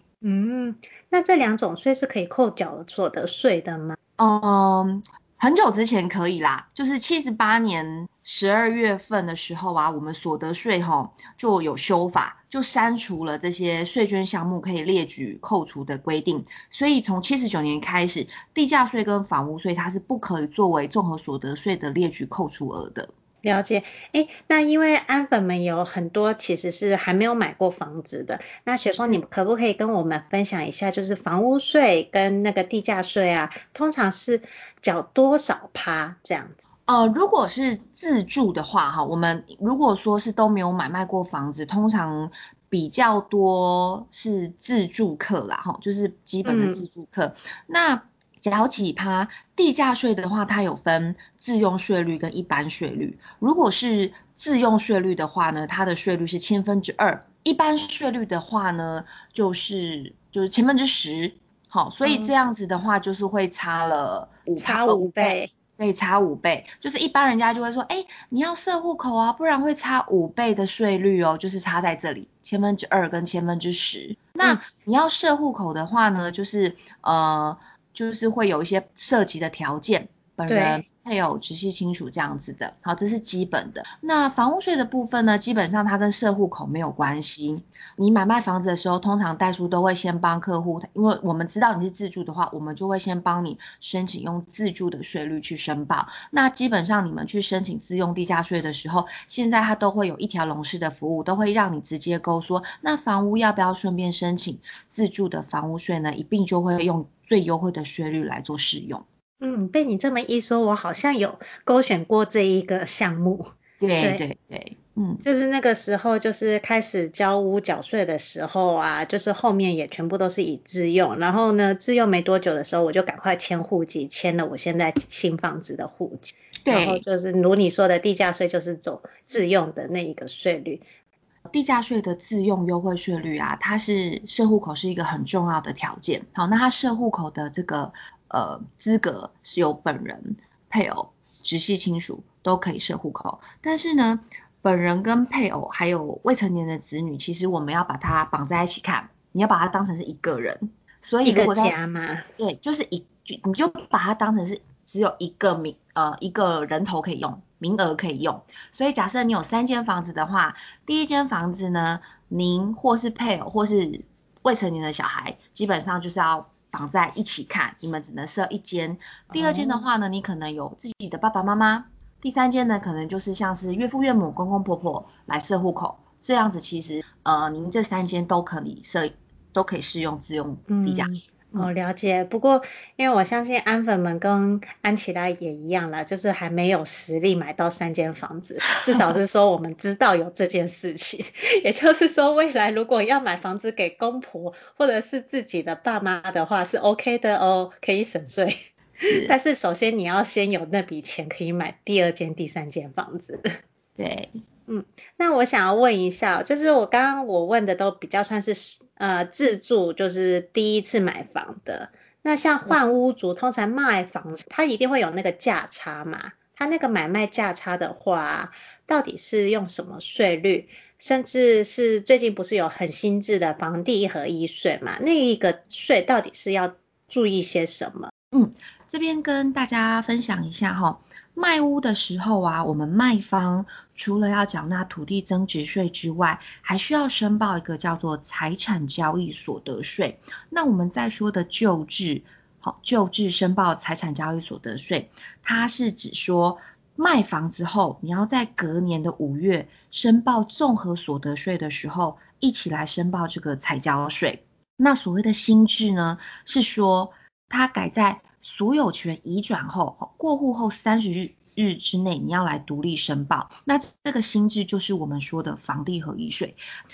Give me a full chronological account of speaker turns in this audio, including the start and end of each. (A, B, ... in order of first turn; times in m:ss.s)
0:00.2-0:04.0 A
0:04.2-0:23.1 B
0:23.4-0:36.6 A
0:28.9-0:29.2 B
0:36.9-1:49.0 B
0:46.4-0:46.8 A
1:02.0-1:02.3 A
1:04.6-1:05.5 A
1:20.5-1:20.8 A
1:49.4-1:54.2 A
1:53.8-1:55.2 B
1:55.2-2:10.8 A
2:06.6-2:07.0 B
2:11.5-3:01.7 B
2:31.2-2:32.3 A
2:49.3-2:49.8 A
3:00.7-3:23.4 A
3:19.0-3:19.3 B
3:24.0-3:24.4 B
3:24.7-3:48.1 A
3:48.3-4:26.6 B